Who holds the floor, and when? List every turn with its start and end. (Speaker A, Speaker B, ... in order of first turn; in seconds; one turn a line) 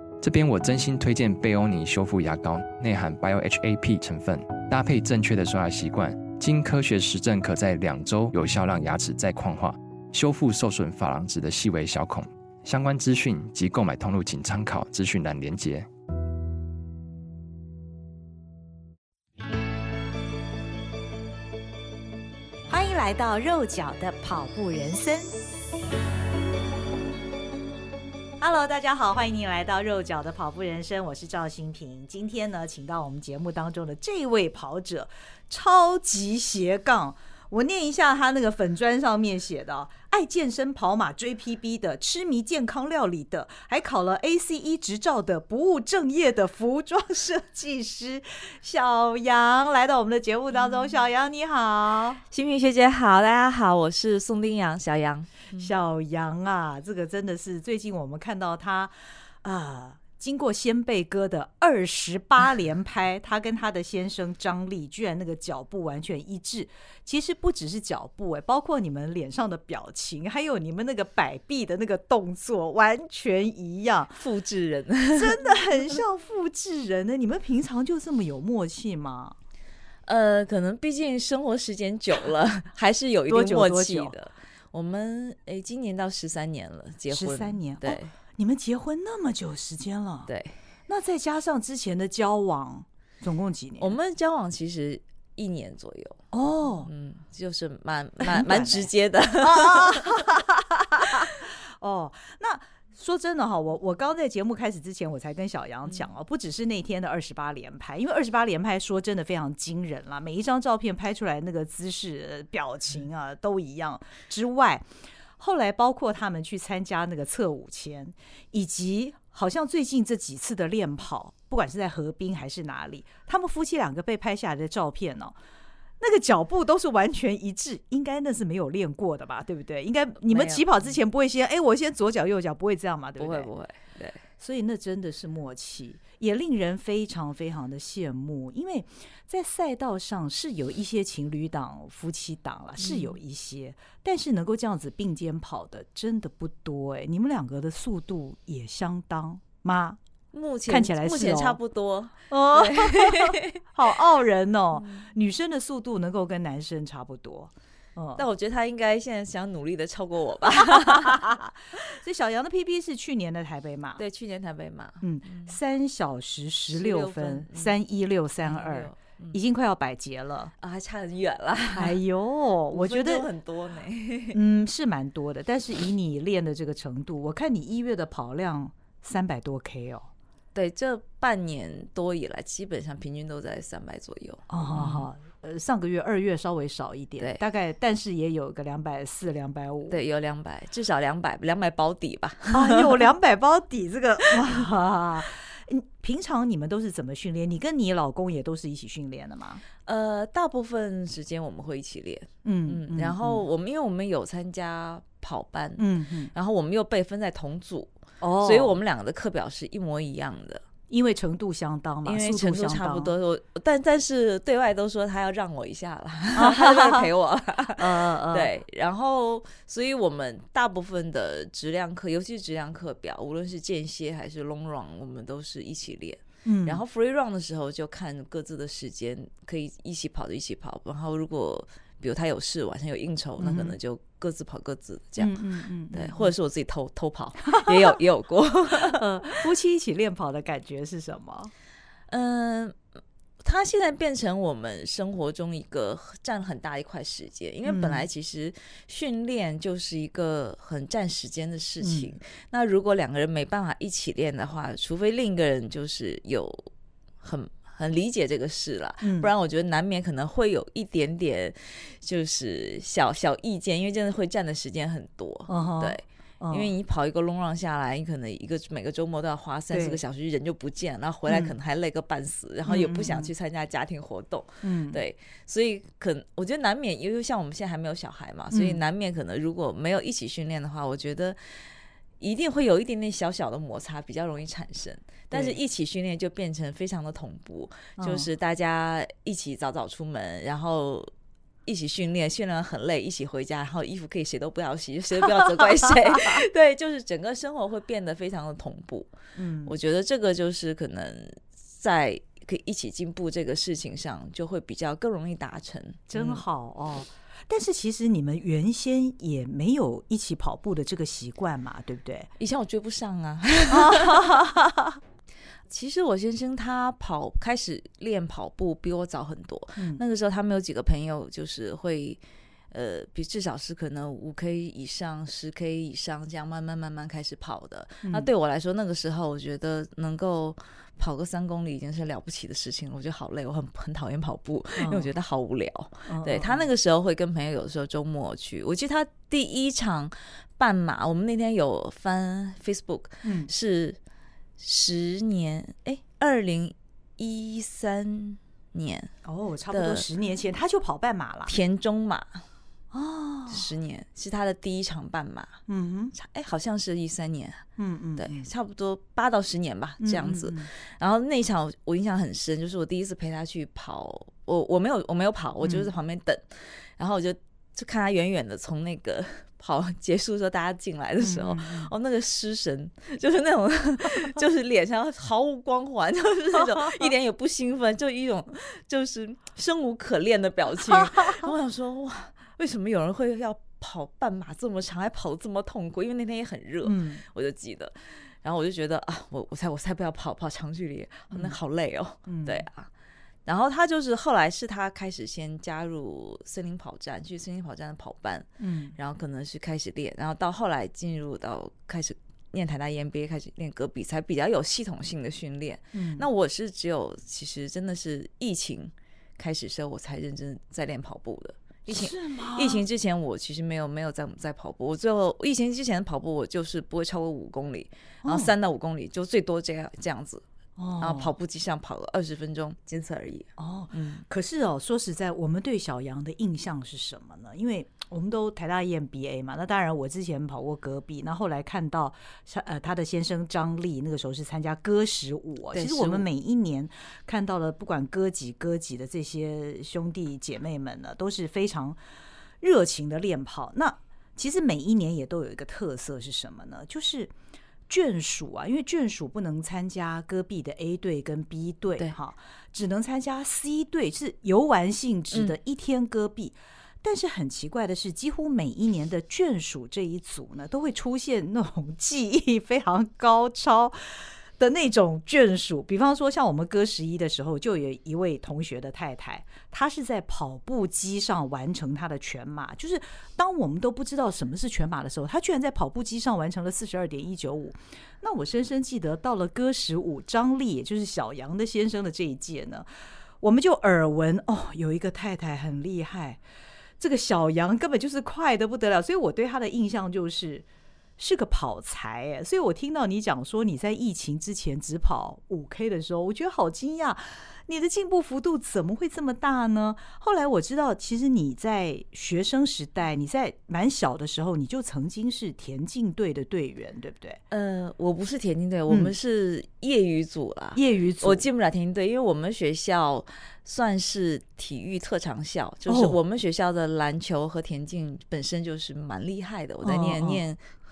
Speaker A: 0.2-15.9
Speaker B: 22.7-25.3
Speaker B: 28.4-52.2
Speaker C: 52.3-55.7
Speaker B: 55.6-74.2
Speaker C: 74.2-75.6
Speaker B: 75.2-79.4
Speaker C: 80.1-88.1
Speaker B: 83.3-84.1
Speaker B: 87.1-90.3
Speaker C: 90.3-90.6
Speaker B: 90.9-94.0
Speaker C: 93.8-96.2
Speaker B: 96.3-96.9
Speaker C: 96.8-100.3
Speaker B: 98.2-114.9
Speaker C: 101.0-101.3
Speaker B: 115.4-125.4
Speaker B: 126.0-133.5
Speaker C: 130.2-130.9
Speaker C: 133.2-134.2
Speaker B: 134.4-150.0
Speaker C: 142.8-143.2
Speaker C: 150.3-153.6
Speaker B: 150.7-151.6
Speaker B: 152.3-158.2
Speaker C: 154.8-155.1
Speaker C: 158.2-161.3
Speaker B: 160.6-164.0
Speaker C: 164.0-165.6
Speaker B: 165.0-170.5
Speaker C: 166.7-167.8
Speaker C: 168.4-169.4
Speaker C: 170.6-172.0
Speaker B: 171.8-173.3
Speaker C: 172.7-174.4
Speaker B: 174.3-180.1
Speaker C: 180.6-185.1
Speaker B: 184.5-190.0
Speaker C: 189.9-193.1
Speaker B: 192.5-199.6
Speaker C: 199.8-210.6
Speaker B: 202.4-203.4
Speaker B: 205.8-206.3
Speaker B: 208.2-208.8
Speaker B: 210.9-213.1
Speaker C: 212.1-239.4
Speaker B: 216.4-217.1
Speaker B: 217.8-218.5
Speaker B: 226.4-226.8
Speaker B: 233.4-233.8
Speaker B: 235.2-236.3
Speaker B: 237.5-237.9
Speaker B: 238.8-241.5
Speaker C: 242.1-242.8
Speaker C: 243.4-256.7
Speaker B: 247.7-248.1
Speaker B: 251.8-252.1
Speaker C: 257.2-291.1
Speaker B: 259.0-259.3
Speaker B: 265.5-266.7
Speaker B: 269.7-270.0
Speaker B: 271.3-271.5
Speaker B: 272.7-273.3
Speaker B: 274.6-275.0
Speaker B: 278.5-278.8
Speaker B: 285.3-285.6
Speaker B: 288.0-288.3
Speaker C: 291.7-299.1
Speaker B: 295.4-296.4
Speaker B: 299.4-299.7
Speaker C: 299.6-306.4
Speaker B: 306.1-312.3
Speaker C: 312.4-314.6
Speaker B: 313.7-315.0
Speaker C: 315.7-322.2
Speaker C: 322.7-344.0
Speaker B: 328.0-328.3
Speaker B: 334.8-335.1
Speaker B: 336.1-336.6
Speaker B: 343.2-343.5
Speaker C: 344.6-349.1
Speaker B: 349.2-351.5
Speaker C: 349.7-350.1
Speaker C: 351.5-352.4
Speaker B: 352.9-353.7
Speaker C: 353.5-355.6
Speaker B: 355.7-356.1
Speaker C: 356.1-357.6
Speaker B: 357.8-358.5
Speaker C: 358.2-392.9
Speaker B: 360.0-360.7
Speaker B: 365.6-365.9
Speaker B: 371.2-371.9
Speaker B: 380.9-381.5
Speaker B: 386.8-387.2
Speaker B: 392.3-392.7
Speaker C: 393.5-420.4
Speaker B: 398.6-398.9
Speaker B: 405.9-406.3
Speaker B: 411.9-412.8
Speaker B: 418.2-418.5
Speaker B: 420.8-421.3
Speaker C: 421.0-424.2
Speaker B: 423.6-442.0
Speaker C: 435.7-436.3
Speaker B: 442.6-447.3
Speaker B: 447.9-482.9
Speaker B: 483.4-486.4
Speaker B: 487.0-490.7
Speaker B: 491.2-507.4
Speaker C: 507.5-520.6
Speaker B: 508.9-509.1
Speaker B: 510.8-511.4
Speaker B: 515.9-516.2
Speaker B: 519.8-520.4